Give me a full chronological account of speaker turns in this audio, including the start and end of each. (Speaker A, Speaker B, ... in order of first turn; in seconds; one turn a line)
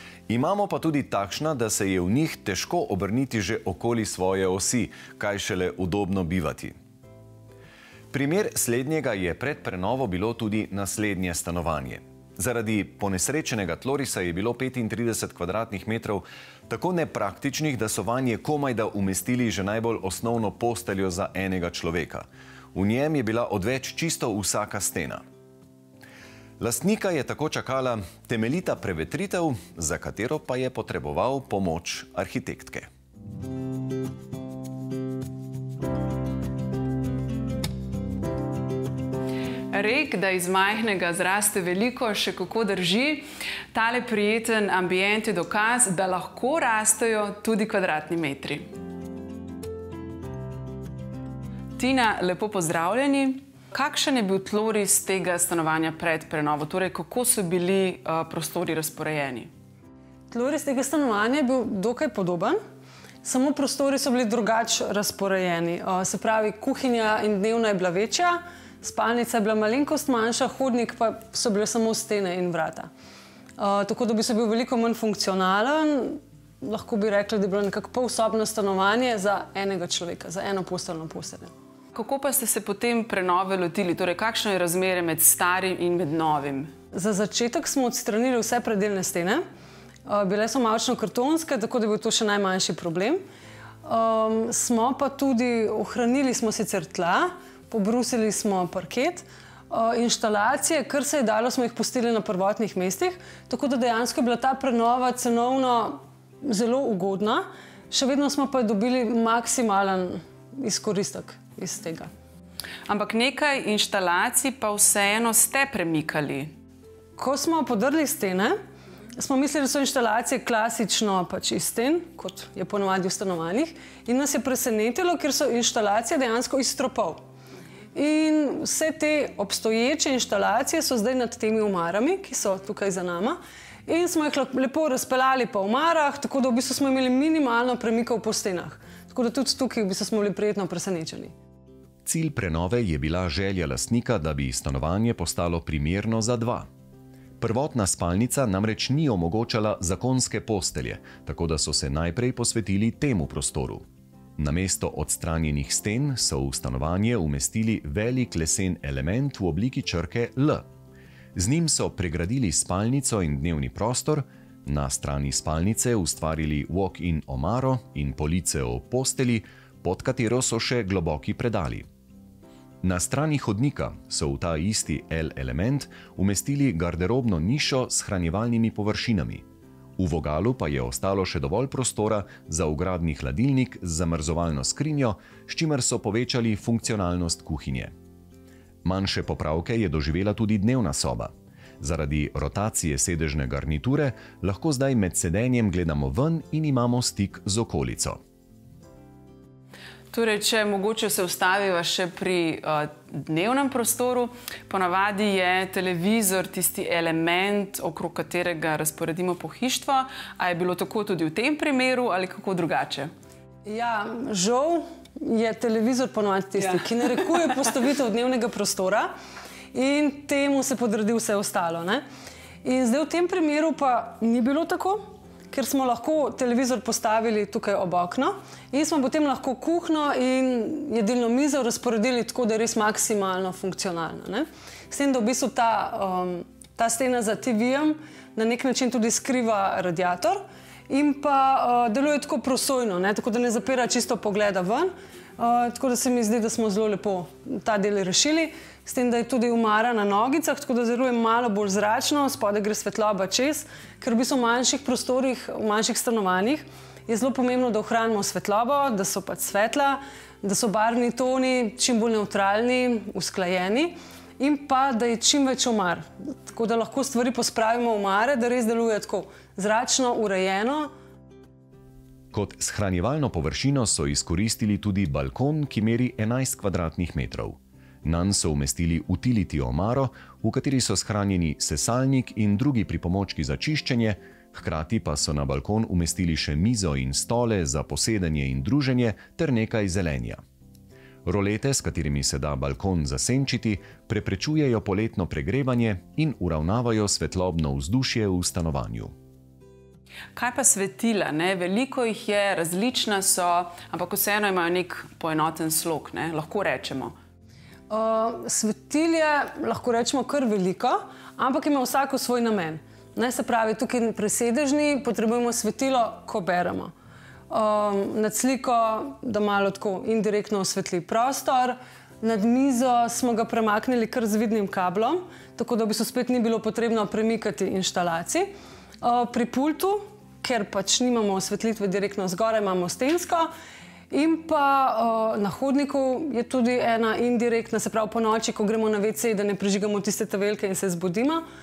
Speaker A: 0.3-6.7
Speaker A: 8.1-25.2
Speaker A: 26.6-32.9
Speaker B: 39.7-48.7
Speaker B: 51.8-59.5
Speaker C: 60.3-62.6
Speaker C: 63.2-72.9
Speaker C: 73.6-81.5
Speaker B: 81.9-86.7
Speaker C: 86.9-89.4
Speaker C: 90.0-93.2
Speaker C: 93.8-112.1
Speaker B: 112.9-116.5
Speaker C: 117.2-118.5
Speaker C: 119.1-127.2
Speaker C: 127.9-141.3
Speaker A: 142.1-146.7
Speaker A: 147.4-153.8
Speaker A: 154.4-160.7
Speaker A: 161.3-171.8
Speaker A: 172.8-179.4
Speaker A: 180.0-187.9
Speaker A: 188.8-198.2
Speaker B: 200.1-213.1
Speaker C: 213.6-219.1
Speaker C: 219.7-222.0
Speaker C: 222.6-270.9
Speaker A: 272.3-290.4
Speaker A: 291.2-299.1
Speaker B: 300.4-307.1
Speaker C: 307.9-316.9
Speaker C: 317.5-328.5
Speaker C: 329.0-333.5
Speaker C: 334.1-341.4